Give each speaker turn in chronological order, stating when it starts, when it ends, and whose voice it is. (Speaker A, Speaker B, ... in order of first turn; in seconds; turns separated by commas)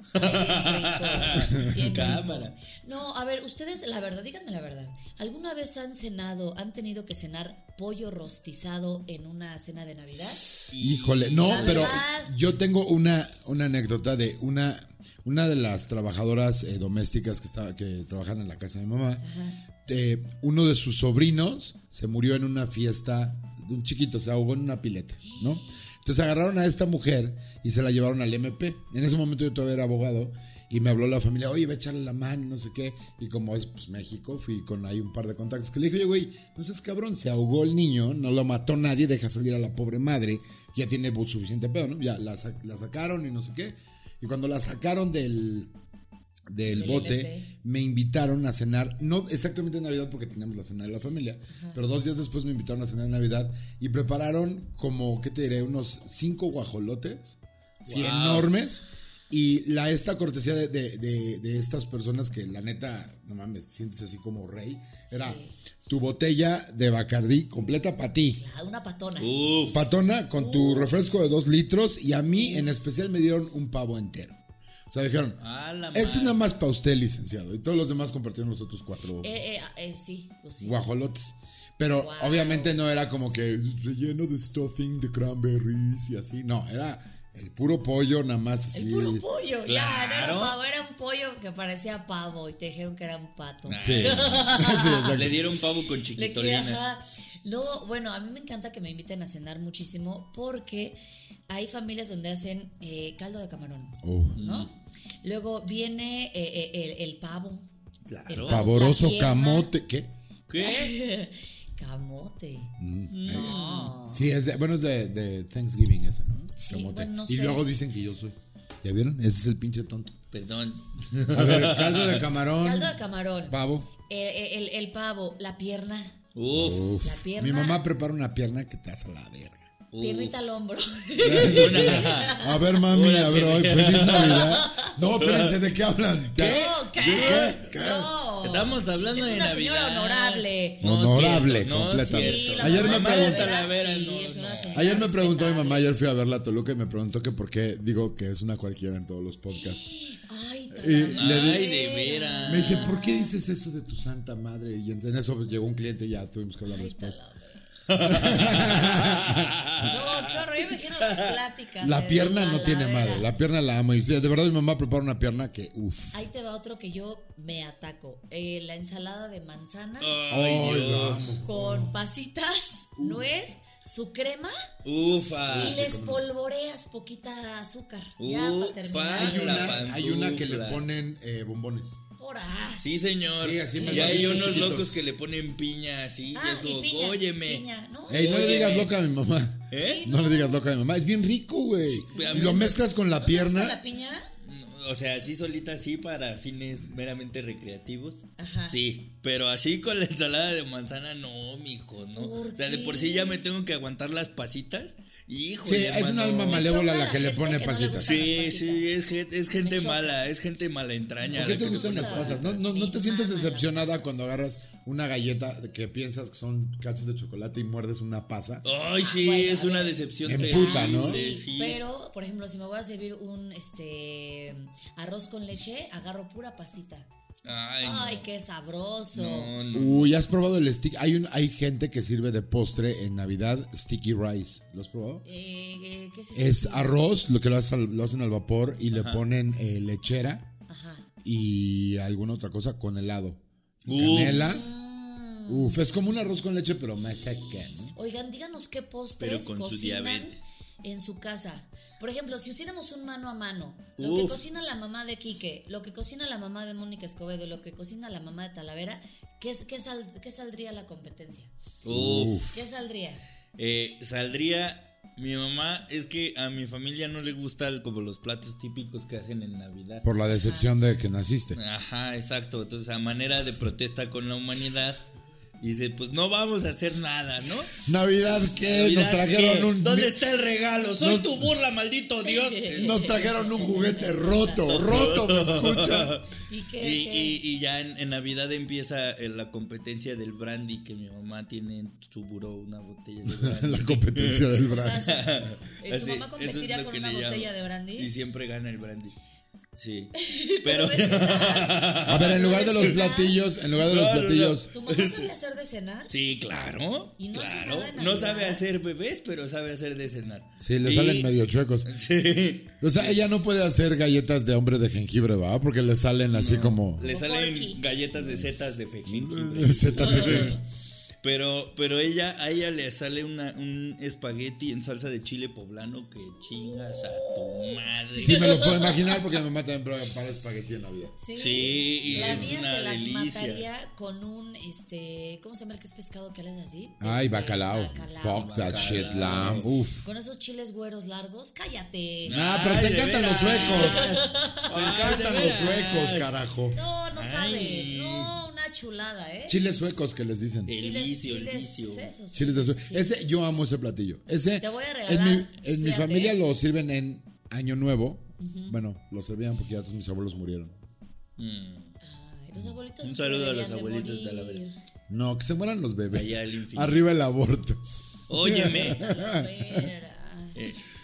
Speaker A: 0.1-2.5, Speaker B: 0.2-10.5, Speaker C: 1.6-2.2, Speaker A: 10.7-12.1, Speaker C: 10.8-19.2, Speaker B: 11.4-12.3, Speaker B: 19.2-19.6, Speaker C: 19.8-45.7, Speaker B: 25.2-25.8, Speaker C: 46.5-68.4, Speaker B: 46.7-47.5, Speaker B: 51.5-51.8, Speaker A: 57.9-58.5, Speaker B: 65.1-65.5, Speaker B: 68.3-69.8, Speaker A: 69.2-69.8, Speaker C: 69.7-74.4, Speaker B: 70.3-70.9, Speaker B: 72.3-72.7, Speaker C: 74.9-75.4, Speaker A: 75.4-76.5, Speaker C: 75.9-79.3, Speaker B: 79.2-80.8, Speaker C: 80.6-89.2, Speaker B: 81.9-82.8, Speaker B: 88.7-95.2, Speaker A: 89.6-90.5, Speaker A: 93.7-94.4, Speaker C: 93.8-95.4, Speaker A: 95.1-96.8, Speaker B: 96.1-101.0, Speaker B: 101.5-107.7, Speaker C: 104.0-104.4, Speaker A: 104.4-104.7, Speaker A: 108.1-108.7, Speaker B: 108.3-109.7, Speaker C: 108.4-110.1, Speaker A: 110.5-110.9, Speaker B: 110.6-112.7, Speaker C: 112.8-113.5, Speaker A: 113.1-114.0, Speaker B: 113.3-114.3, Speaker C: 114.1-120.2, Speaker B: 116.5-117.7, Speaker A: 120.3-122.3, Speaker C: 121.3-123.9, Speaker B: 122.6-126.1, Speaker A: 126.3-127.0, Speaker C: 126.5-129.7, Speaker B: 127.0-127.8, Speaker A: 129.9-130.4, Speaker B: 130.0-132.7, Speaker C: 131.2-138.1, Speaker A: 131.4-134.6, Speaker B: 134.1-134.9, Speaker A: 135.2-135.6, Speaker A: 136.3-137.6, Speaker B: 136.4-140.9, Speaker A: 138.4-144.9, Speaker C: 140.8-143.6, Speaker B: 142.0-145.9, Speaker C: 144.7-150.0, Speaker B: 149.5-153.3, Speaker C: 150.8-151.6, Speaker A: 151.1-152.9, Speaker C: 152.4-157.2, Speaker B: 156.6-157.6, Speaker A: 157.9-161.4, Speaker C: 158.0-159.6, Speaker B: 159.8-163.3, Speaker C: 161.8-166.3, Speaker B: 166.1-170.2, Speaker A: 170.0-171.3, Speaker C: 170.3-171.9, Speaker B: 171.4-174.7, Speaker A: 174.8-175.8, Speaker B: 175.2-179.8, Speaker C: 175.4-176.2, Speaker A: 178.2-180.8, Speaker C: 179.1-182.0, Speaker B: 182.2-182.9, Speaker A: 182.8-188.9, Speaker C: 183.4-185.0, Speaker B: 183.8-184.7, Speaker B: 186.3-188.9, Speaker C: 188.1-193.8, Speaker A: 189.7-190.0, Speaker B: 189.7-190.6, Speaker B: 192.1-194.3, Speaker A: 192.1-192.7, Speaker A: 194.4-206.7, Speaker B: 198.4-198.8, Speaker B: 202.1-203.5, Speaker C: 205.6-208.2, Speaker B: 206.4-209.0, Speaker A: 208.0-212.6, Speaker B: 209.5-210.2, Speaker B: 211.2-213.8, Speaker C: 211.3-218.6, Speaker A: 218.6-221.8, Speaker B: 219.0-227.1, Speaker C: 220.2-221.2, Speaker A: 227.4-228.3, Speaker B: 227.8-229.6, Speaker A: 229.1-230.1, Speaker C: 229.7-235.2, Speaker B: 235.2-236.9, Speaker C: 236.3-240.5, Speaker A: 238.9-239.2, Speaker B: 240.7-241.1, Speaker C: 241.2-244.7, Speaker A: 243.9-244.4, Speaker B: 244.3-245.8, Speaker C: 245.5-247.9, Speaker B: 247.9-261.5, Speaker A: 249.2-250.5, Speaker A: 254.0-254.4, Speaker A: 261.8-262.5, Speaker C: 261.9-262.6, Speaker B: 262.5-263.2, Speaker A: 263.6-270.1, Speaker C: 270.0-271.6, Speaker B: 270.4-270.7, Speaker A: 271.6-275.0, Speaker A: 275.6-277.7, Speaker C: 277.8-280.2, Speaker A: 278.6-283.0, Speaker C: 281.0-281.5, Speaker B: 282.2-284.7, Speaker C: 282.7-286.2, Speaker A: 284.6-299.2, Speaker B: 286.5-287.4, Speaker C: 293.2-295.0, Speaker B: 294.7-298.1, Speaker A: 299.8-303.0, Speaker B: 300.2-303.4, Speaker C: 302.0-304.7, Speaker A: 303.7-305.3, Speaker B: 304.7-306.1, Speaker A: 306.1-313.2, Speaker B: 307.2-308.6, Speaker C: 310.6-311.9, Speaker C: 312.8-317.0, Speaker A: 316.3-320.6, Speaker B: 317.0-317.8, Speaker C: 318.1-318.5, Speaker C: 319.1-320.6, Speaker A: 321.2-328.8, Speaker B: 327.3-329.2, Speaker C: 328.2-331.2, Speaker B: 331.2-342.4, Speaker A: 331.3-333.6, Speaker C: 332.1-332.5, Speaker C: 337.0-340.1, Speaker A: 338.3-339.7, Speaker A: 342.2-346.3, Speaker C: 342.3-344.1, Speaker B: 343.5-344.7, Speaker C: 344.7-346.8, Speaker B: 346.7-349.6, Speaker A: 347.1-348.3, Speaker C: 349.5-350.7, Speaker A: 350.7-352.1, Speaker B: 350.7-353.1, Speaker C: 352.3-360.8, Speaker B: 354.6-356.4, Speaker B: 358.4-358.8, Speaker A: 361.4-361.9, Speaker B: 362.0-364.8, Speaker A: 363.0-364.6, Speaker C: 365.1-367.8, Speaker A: 366.1-367.0, Speaker A: 368.3-369.0, Speaker C: 368.3-369.9, Speaker B: 368.8-370.7